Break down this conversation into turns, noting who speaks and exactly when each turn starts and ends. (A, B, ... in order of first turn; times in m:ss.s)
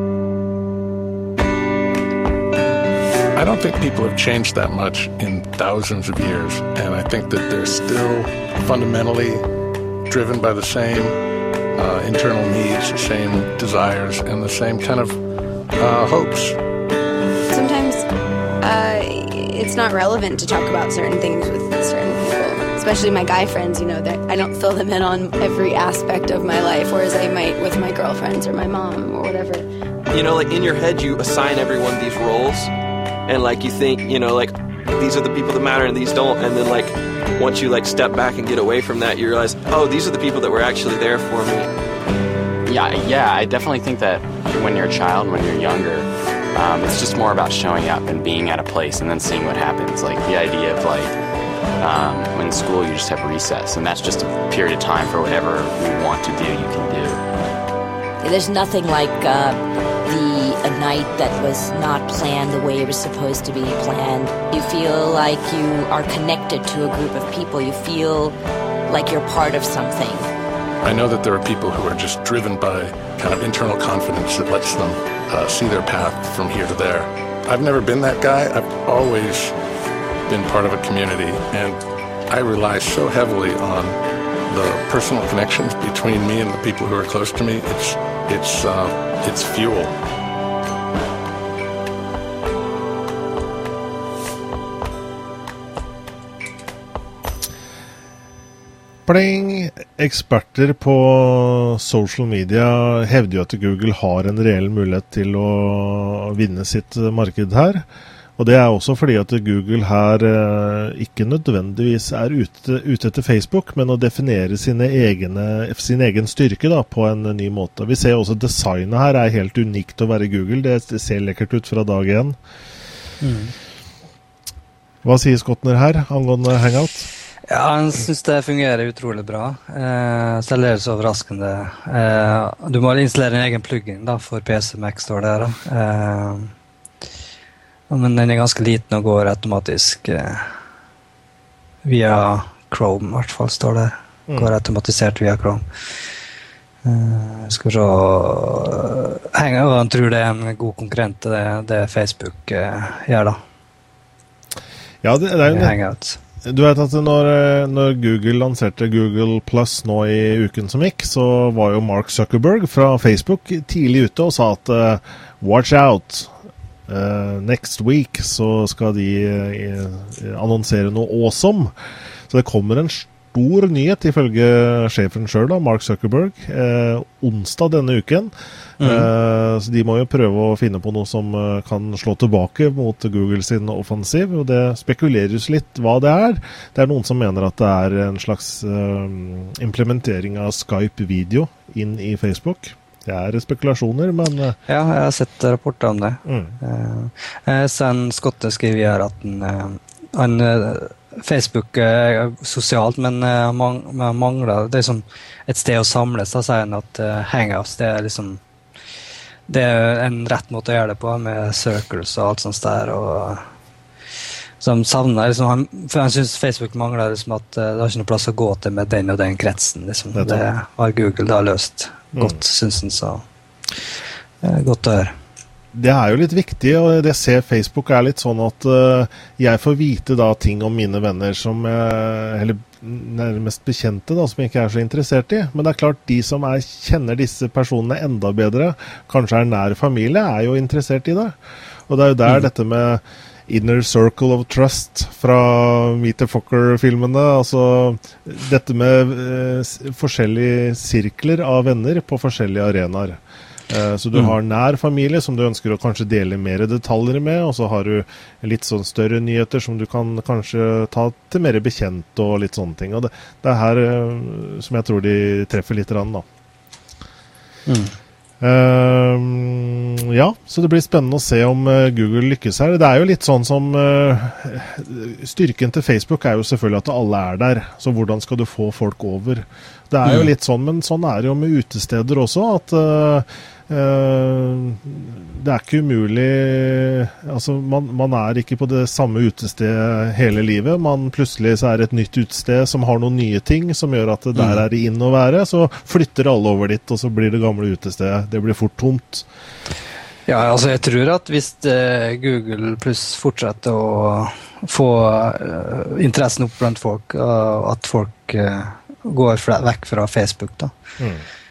0:03.3-0:09.5 A
0:10.0-0:11.2 A
0:11.7-0:15.2 A
0:15.8-0:16.6 A
0:17.5-0:18.0 B
0:18.6-0:29.6 B
0:30.1-0:32.7 C
0:33.3-0:41.7 C
0:42.6-0:51.1 D
0:51.8-0:57.2 D
0:58.2-1:08.3 E
1:08.9-1:10.3 E
1:10.8-1:19.5 A
1:20.2-1:24.0 A
1:24.5-1:30.0 A
1:39.0-1:47.8 F
1:48.4-2:02.4 F
2:03.2-2:03.5 G
2:05.0-2:07.1 F
2:07.5-2:16.5 G
2:17.9-2:20.5 G
2:21.8-2:25.6 G
2:24.3-2:24.5 F
2:26.8-2:33.4 G
2:35.0-2:35.8 F
2:35.5-2:36.2 G
2:36.4-2:46.3 F
2:46.9-2:51.7 F
2:52.3-3:14.6 F
2:58.8-2:59.1 G
3:14.7-3:28.4 G
3:16.2-3:16.6 F
3:29.5-3:33.4 G
3:34.6-3:43.2 G
3:40.1-3:40.4 F
3:44.4-3:45.1 G
3:45.7-4:01.4 F
4:01.9-4:26.2 F
4:27.7-4:28.0 G
4:28.4-4:59.3 F
4:40.0-4:40.3 G
4:54.4-4:54.6 G
5:00.3-5:10.7 G
5:11.0-5:11.2 F